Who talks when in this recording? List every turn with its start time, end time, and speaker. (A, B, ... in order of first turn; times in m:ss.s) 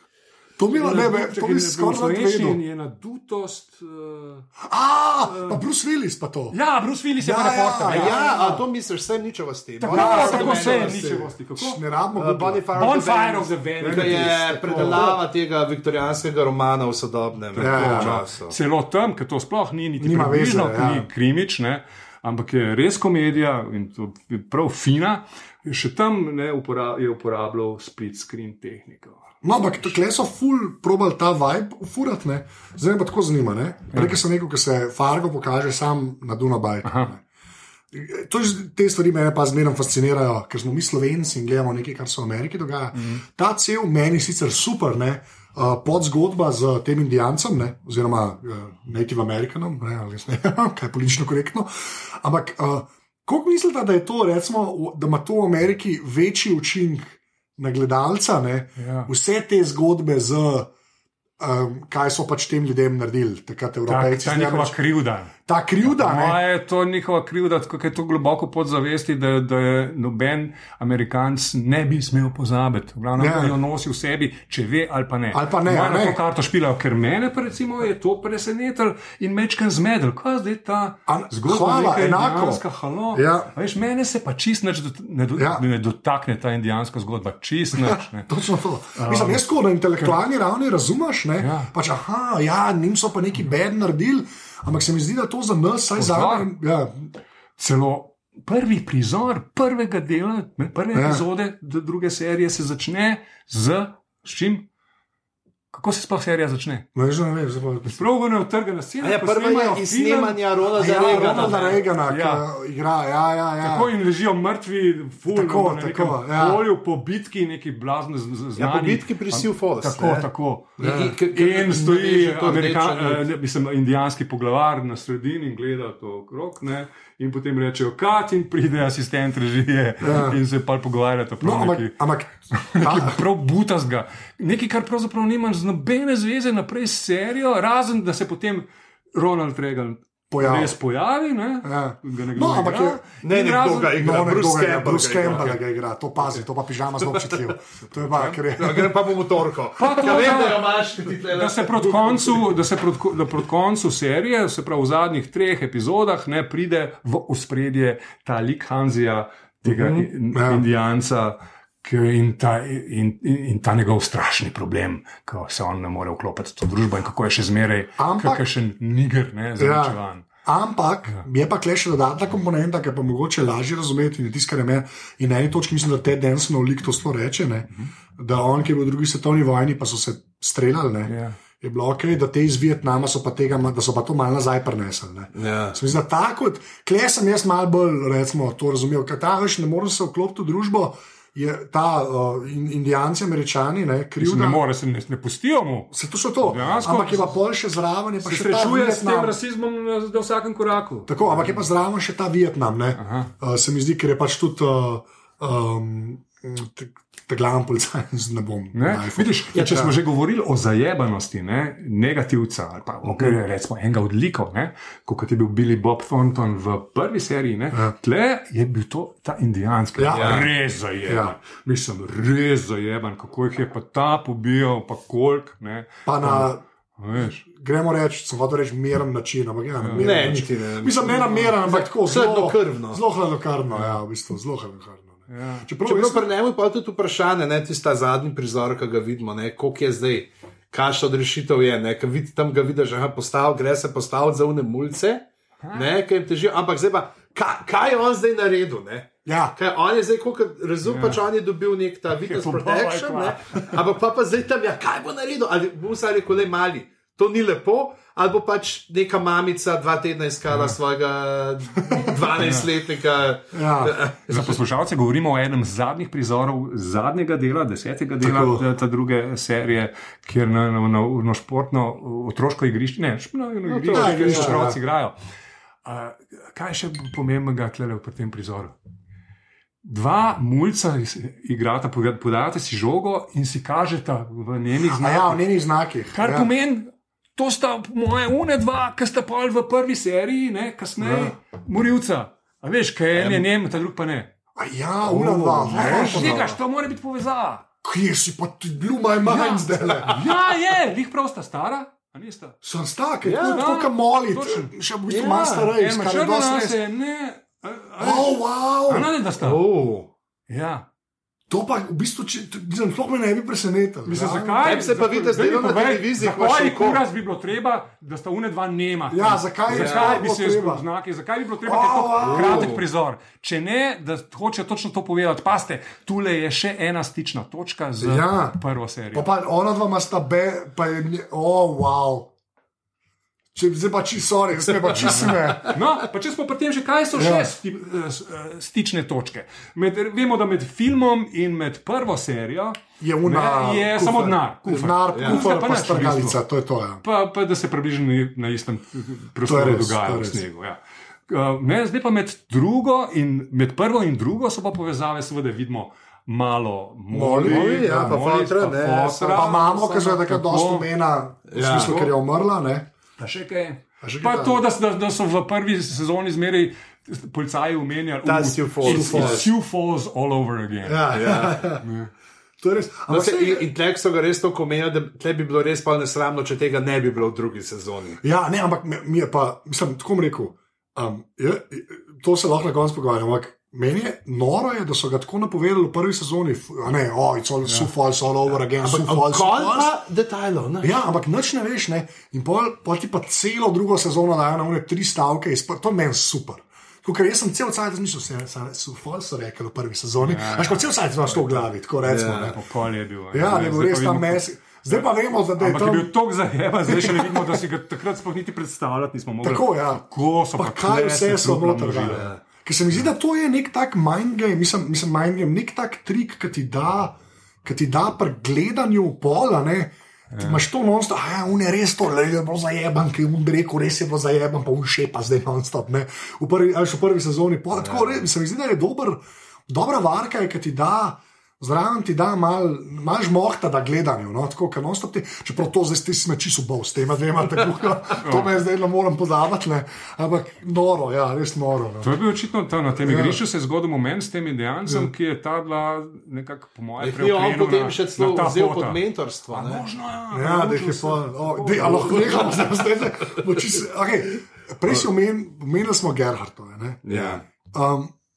0:00.6-0:02.6 A
0:00.7-0:04.5 B
0:04.6-0:06.6 A
0:05.3-0:05.6 B
0:06.5-0:08.2 B
0:07.2-0:08.6 A
0:07.9-0:11.3 C
0:09.8-0:11.8 B
0:09.9-0:12.7 A
0:12.1-0:18.5 C
0:12.7-0:15.0 B
0:13.8-0:15.2 A
0:17.5-0:29.9 B
0:17.6-0:18.2 A
0:20.0-0:21.1 A
0:29.4-0:37.2 A
0:33.9-0:34.2 B
0:36.8-0:37.1 B
0:37.9-1:00.7 A
0:43.0-0:43.2 B
0:58.8-0:59.1 B
1:01.4-1:04.8 A
1:03.9-1:28.3 B
1:05.5-1:06.4 A
1:13.2-1:13.6 A
1:15.3-1:16.2 A
1:21.1-1:22.6 A
1:23.1-1:23.5 A
1:25.4-1:25.6 A
1:27.7-1:37.1 A
1:29.0-1:29.4 B
1:31.4-1:31.7 B
1:36.0-1:36.5 B
1:37.6-1:44.7 B
1:40.9-1:41.2 A
1:45.7-1:46.9 B
1:46.9-1:48.0 A
1:47.8-1:52.4 B
1:49.0-1:51.8 C
1:50.8-1:53.9 A
1:53.6-2:11.9 B
1:55.3-1:56.6 A
1:58.6-2:00.3 C
2:00.8-2:01.1 A
2:00.8-2:03.2 C
2:10.0-2:10.4 A
2:11.4-2:13.2 A
2:12.5-2:24.0 B
2:20.3-2:20.8 A
2:21.6-2:23.0 A
2:23.2-2:25.6 C
2:23.9-2:29.0 A
2:28.4-2:32.5 C
2:29.8-2:50.2 B
2:39.7-2:40.0 C
2:40.3-2:40.6 A
2:48.0-2:48.4 A
2:49.6-3:14.6 A
3:01.0-3:01.4 B
3:05.3-3:05.8 C
3:14.2-3:15.9 B
3:15.9-3:19.3 A
3:16.4-3:17.4 B
3:18.2-3:21.4 B
3:21.1-3:30.0 A
3:23.0-3:23.3 B
3:28.7-3:47.4 B
3:40.0-3:40.5 A
3:40.1-3:40.5 C
3:41.0-3:41.4 A
3:46.0-3:46.6 A
3:47.4-3:56.3 A
3:49.8-3:50.2 B
3:49.9-3:53.0 C
3:51.0-3:51.5 B
3:53.7-3:54.0 B
3:55.3-3:55.6 B
3:55.8-4:24.6 C
4:05.6-4:05.9 B
4:09.2-4:09.5 A
4:10.8-4:11.2 B
4:12.2-4:13.7 B
4:20.5-4:20.8 B
4:21.8-4:22.1 A
4:22.4-4:22.7 B
4:23.5-4:24.0 A
4:24.2-4:35.2 B
4:28.2-4:28.6 A
4:33.8-4:34.8 A
4:33.8-4:34.5 C
4:35.8-4:38.7 B
4:39.8-4:45.4 B
4:44.9-4:46.5 A
4:46.1-4:54.3 B
4:51.0-4:51.3 A
4:53.1-4:53.4 C
4:54.5-4:56.6 A
4:55.0-4:57.6 B
4:55.7-4:56.5 C
4:57.8-5:00.2 A
4:59.2-5:00.4 C
5:00.1-5:02.6 B
5:02.6-5:06.8 A
5:03.2-5:03.6 C
5:03.4-5:04.7 B
5:05.1-5:05.7 C
5:05.6-5:09.6 B
5:08.0-5:09.1 A
5:09.4-5:10.1 C
5:10.5-5:10.8 B
5:11.5-5:14.7 A
5:14.0-5:29.3 B
5:14.6-5:17.0 C
5:19.1-5:20.8 A
5:19.7-5:20.2 C
5:21.6-5:22.8 A
5:22.2-5:22.8 C
5:28.0-5:28.6 A
5:29.1-5:32.3 A
5:33.5-5:35.8 A
5:35.0-5:46.4 B
5:37.1-5:37.5 A
5:43.0-5:47.0 A
5:45.1-5:45.4 C
5:47.0-6:00.9 B
5:49.4-5:50.4 A
5:57.1-5:58.2 A
5:57.4-6:00.0 C
5:59.3-6:02.9 A
6:01.5-6:02.0 C
6:01.6-6:02.1 B
6:03.2-6:11.1 B
6:04.0-6:04.6 A
6:08.2-6:09.5 C
6:08.8-6:09.5 A
6:10.8-6:11.8 A
6:11.1-6:11.7 C
6:11.8-6:12.1 B
6:12.6-6:13.7 A
6:13.1-6:18.2 C
6:18.2-6:29.9 A
6:28.8-6:31.0 C
6:30.8-6:42.6 A
6:40.2-6:41.6 B
6:42.0-6:42.6 C
6:42.3-6:52.3 B
6:43.3-6:46.1 A
6:46.9-6:47.6 A
6:49.4-6:50.0 A
6:50.6-7:22.1 A
6:52.1-6:52.4 C
7:00.3-7:00.6 B
7:18.2-7:18.5 B
7:22.0-7:32.5 B
7:23.0-7:23.4 A
7:27.0-7:29.8 C
7:30.3-7:38.1 A
7:32.0-7:33.4 C
7:37.0-7:37.4 C